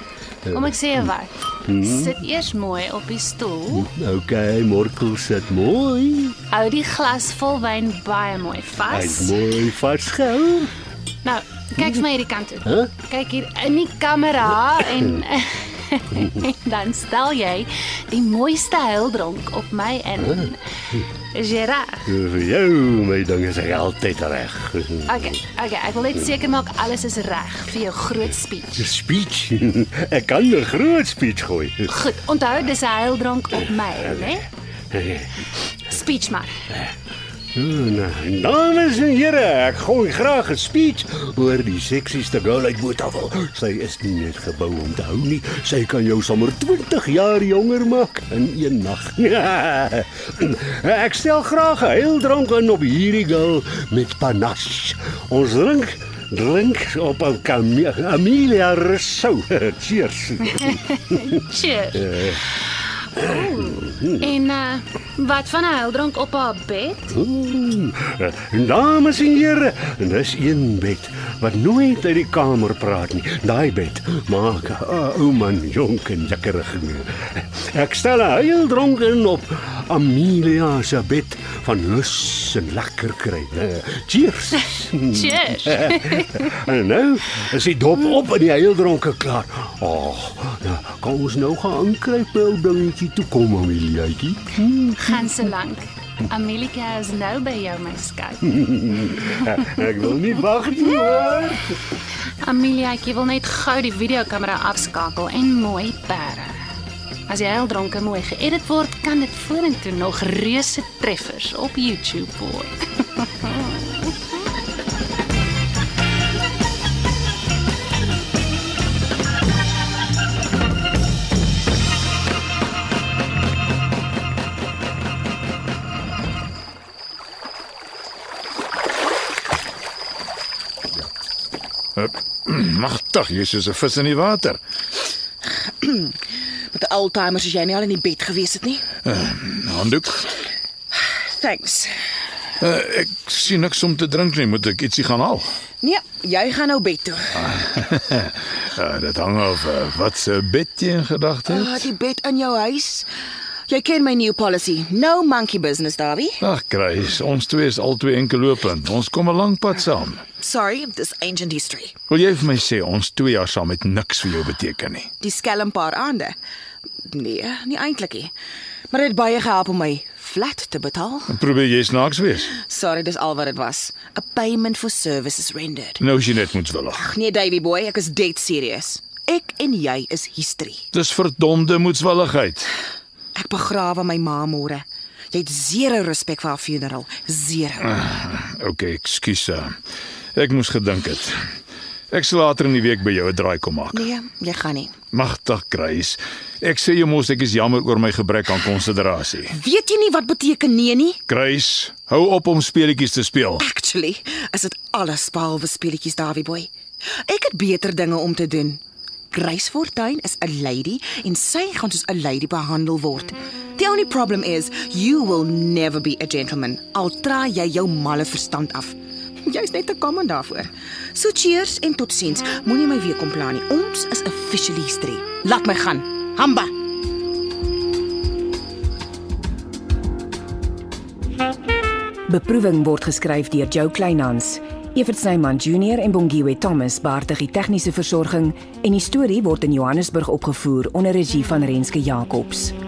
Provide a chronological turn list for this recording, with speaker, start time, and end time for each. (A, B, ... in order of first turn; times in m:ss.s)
0:00.5-0:03.9 A
0:01.7-0:02.1 B
0:03.8-0:06.4 B
0:06.5-0:09.4 A
0:08.9-0:10.7 B
0:11.2-0:20.6 A
0:21.3-0:22.1 A
0:22.1-0:25.1 B
0:25.0-0:28.8 A
0:28.8-0:31.9 B
0:31.9-0:34.5 A
0:34.9-0:35.3 B
0:35.9-0:36.5 A
0:37.5-1:00.7 B
1:00.6-1:02.4 A
1:02.1-1:02.4 B
1:03.2-1:07.1 A
1:03.2-1:04.2 B
1:07.1-1:35.1 B
1:25.1-1:26.5 A
1:35.0-1:38.6 A
1:38.6-1:41.8 B
1:42.4-1:46.6 A
1:47.3-1:53.7 A
2:12.0-2:14.6 C
2:15.8-2:16.1 D
2:16.7-2:18.8 D
2:19.0-2:20.3 C
2:20.9-2:21.9 D
2:22.6-2:25.5 C
2:25.8-2:27.3 D
2:27.4-2:31.9 C
2:31.5-2:33.1 D
2:33.7-2:36.4 D
2:36.4-2:40.2 C
2:40.4-2:41.9 D
2:42.1-2:45.1 C
2:45.2-2:46.3 D
2:47.1-2:48.3 D
2:48.9-2:51.4 D
2:51.3-2:52.5 C
2:52.5-2:56.0 D
2:56.0-2:57.0 C
2:56.9-3:00.8 D
3:00.9-3:02.7 C
3:03.3-3:07.9 D
3:07.8-3:09.7 C
3:10.4-3:11.4 C
3:12.1-3:14.1 C
3:13.9-3:14.9 D
3:15.1-3:19.5 C
3:19.5-3:21.2 D
3:21.3-3:23.6 C
3:23.6-3:26.7 D
3:27.2-3:28.8 D
3:29.3-3:46.7 D
3:52.3-4:02.8 E